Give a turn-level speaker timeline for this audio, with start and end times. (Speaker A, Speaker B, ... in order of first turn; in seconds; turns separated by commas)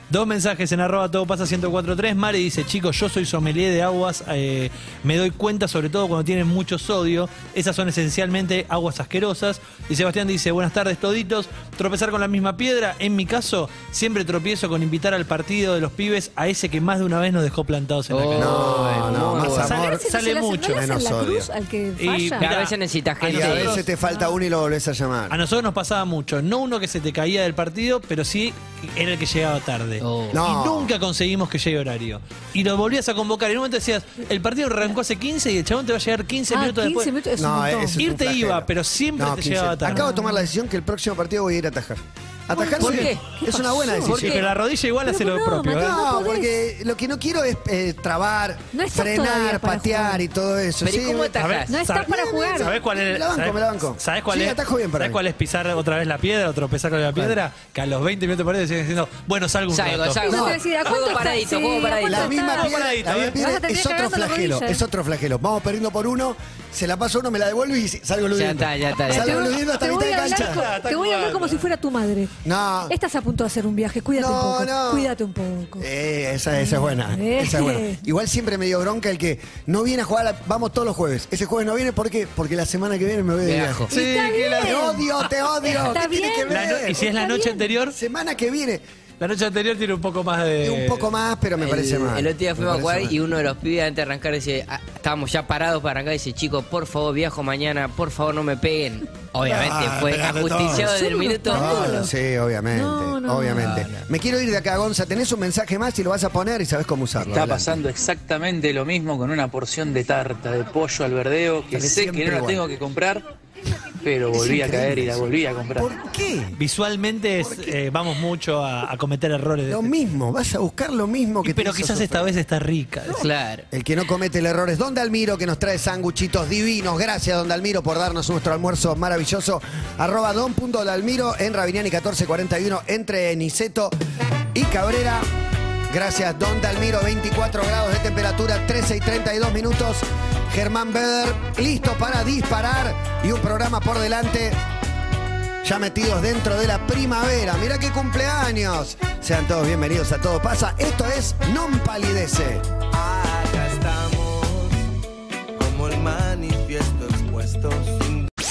Speaker A: 0.1-20.8, Speaker B: 18.1-19.7, Speaker C: 18.4-20.0, Speaker D: 19.7-22.4, Speaker C: 20.6-21.5, Speaker A: 22.0-23.8, Speaker B: 22.4-23.8, Speaker C: 23.2-25.4, Speaker D: 24.0-24.3, Speaker A: 25.3-37.1, Speaker B: 30.0-30.4, Speaker C: 30.3-30.9, Speaker D: 36.5-38.0, Speaker C: 37.4-44.4, Speaker A: 38.0-40.1, Speaker D: 39.9-40.5, Speaker D: 42.5-44.1, Speaker B: 42.7-43.3, Speaker B: 44.1-44.4, Speaker A: 44.1-46.0, Speaker D: 45.0-46.5, Speaker C: 45.7-51.4, Speaker D: 48.7-50.2, Speaker B: 50.8-51.8, Speaker A: 51.4-60.2, Speaker D: 51.7-52.7, Speaker C: 52.5-55.2, Speaker C: 57.1-57.4, Speaker B: 59.7-62.4, Speaker D: 60.2-62.8, Speaker C: 60.3-60.6, Speaker C: 62.0-70.7, Speaker A: 62.5-63.4, Speaker D: 63.3-64.8, Speaker B: 68.3-69.5, Speaker D: 69.1-72.3, Speaker A: 70.3-71.7, Speaker C: 72.4-72.9, Speaker D: 72.9-75.9, Speaker C: 74.1-75.1, Speaker C: 75.8-83.9, Speaker D: 76.5-78.0, Speaker B: 83.4-83.9, Speaker A: 83.9-84.8, Speaker D: 83.9-85.0, Speaker C: 84.5-87.1, Speaker D: 85.6-87.7, Speaker A: 86.5-88.0, Speaker C: 87.9-88.8, Speaker A: 89.2-91.1, Speaker C: 90.6-93.2, Speaker B: 91.6-102.0, Speaker C: 99.4-107.8, Speaker D: 100.7-102.1, Speaker D: 102.7-103.7, Speaker B: 103.5-104.0, Speaker E: 107.2-113.2, Speaker C: 111.7-112.6, Speaker E: 114.0-116.0, Speaker C: 114.3-116.6, Speaker A: 116.5-119.9, Speaker C: 117.4-117.8, Speaker C: 119.7-122.3, Speaker A: 121.4-123.3, Speaker B: 123.1-123.7, Speaker C: 123.7-133.9, Speaker C: 134.5-135.3, Speaker C: 135.9-144.6, Speaker C: 145.6-152.7, Speaker F: 152.9-154.8, Speaker F: 155.6-158.3